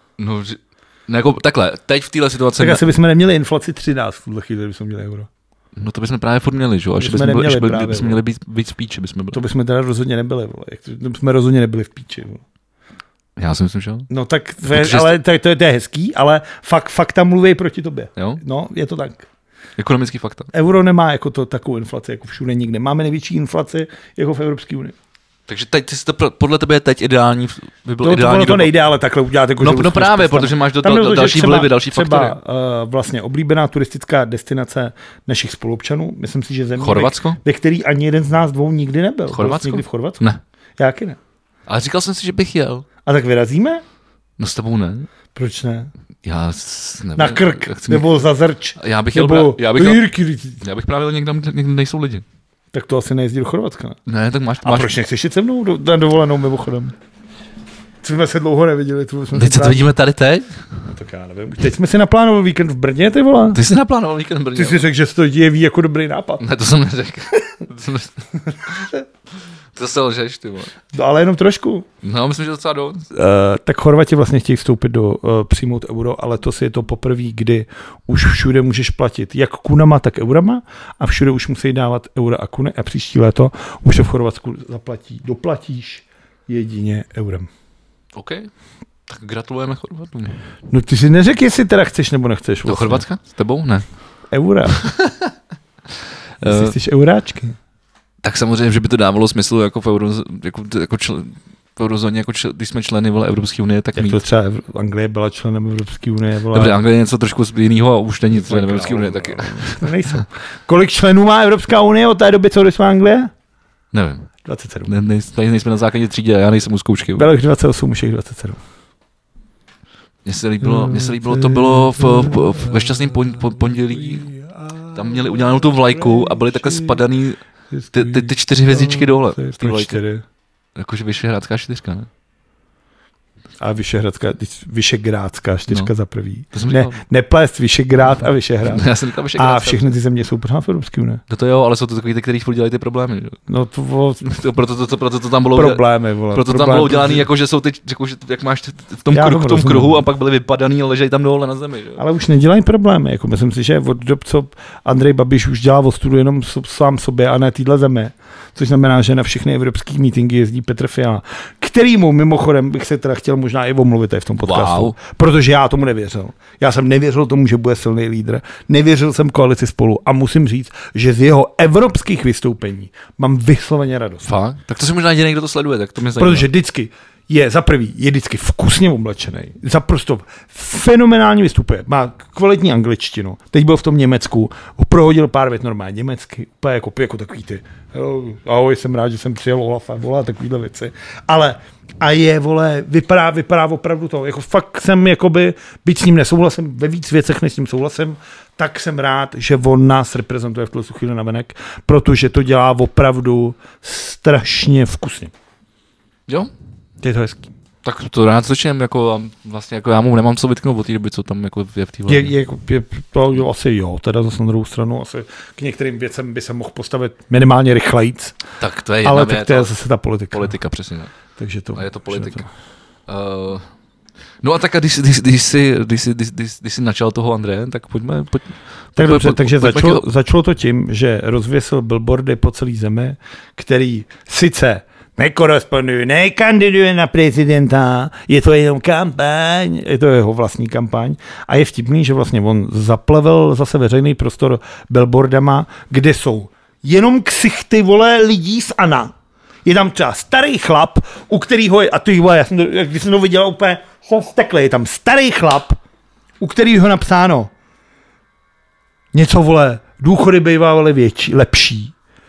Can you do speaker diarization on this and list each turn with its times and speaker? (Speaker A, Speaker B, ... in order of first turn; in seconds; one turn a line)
Speaker A: 0.2-2.8
Speaker B: 2.6-5.3
Speaker A: 5.8-9.4
Speaker B: 7.0-8.2
Speaker B: 9.3-12.4
Speaker A: 13.4-14.1
Speaker B: 14.1-19.3
Speaker A: 14.7-15.2
Speaker A: 19.8-20.5
Speaker B: 20.5-24.9
Speaker A: 25.5-28.7
Speaker B: 28.0-40.2
Speaker A: 29.6-32.4
Speaker A: 36.8-37.4
Speaker A: 39.3-40.4
Speaker B: 40.8-41.2
Speaker A: 41.7-42.9
Speaker B: 43.1-43.8
Speaker A: 44.4-45.1
Speaker B: 45.3-45.9
Speaker A: 46.2-48.1
Speaker B: 47.2-50.6
Speaker A: 48.8-50.1
Speaker A: 50.6-52.2
Speaker B: 52.7-54.0
Speaker A: 54.1-54.9
Speaker B: 54.6-56.9
Speaker B: 58.0-59.9
Speaker A: 59.3-60.6
Speaker B: 60.9-63.6
Speaker A: 63.5-64.9
Speaker B: 64.5-66.4
Speaker A: 66.4-68.9
Speaker B: 68.7-69.0
Speaker A: 69.7-70.7
Speaker B: 70.9-71.9
Speaker A: 72.0-73.1
Speaker B: 73.1-87.5
Speaker A: 88.2-88.5
Speaker A: 89.1-90.4
Speaker B: 90.7-93.0
Speaker A: 92.7-93.8
Speaker B: 94.3-94.8
Speaker A: 94.7-95.3
Speaker A: 96.4-96.8
Speaker B: 96.4-97.6
Speaker A: 98.2-104.2
Speaker B: 104.0-106.8
Speaker A: 106.5-109.9
Speaker B: 108.3-113.3
Speaker A: 113.9-114.3
Speaker B: 114.5-114.9
Speaker A: 114.9-117.3
Speaker B: 117.2-118.6
Speaker A: 120.2-124.3
Speaker B: 120.6-127.0
Speaker A: 124.9-127.4
Speaker B: 127.7-130.2
Speaker A: 127.9-130.0
Speaker A: 130.8-132.1
Speaker B: 133.6-141.2
Speaker A: 136.5-137.0
Speaker A: 138.7-139.9
Speaker A: 141.3-143.4
Speaker B: 143.5-144.2
Speaker A: 144.2-152.0
Speaker B: 145.5-147.3
Speaker B: 149.1-150.0
Speaker B: 152.0-174.3
Speaker A: 164.4-164.9
Speaker A: 174.2-176.5
Speaker B: 176.2-205.3
Speaker B: 207.0-207.5
Speaker A: 207.8-212.3
Speaker B: 212.1-218.4
Speaker A: 218.6-219.7
Speaker B: 219.0-220.5
Speaker A: 220.3-221.2
Speaker B: 221.4-222.5
Speaker A: 221.8-222.5
Speaker A: 223.1-223.7
Speaker A: 224.4-230.0
Speaker B: 229.0-249.1
Speaker B: 249.7-255.8
Speaker B: 256.4-257.5
Speaker B: 259.1-261.9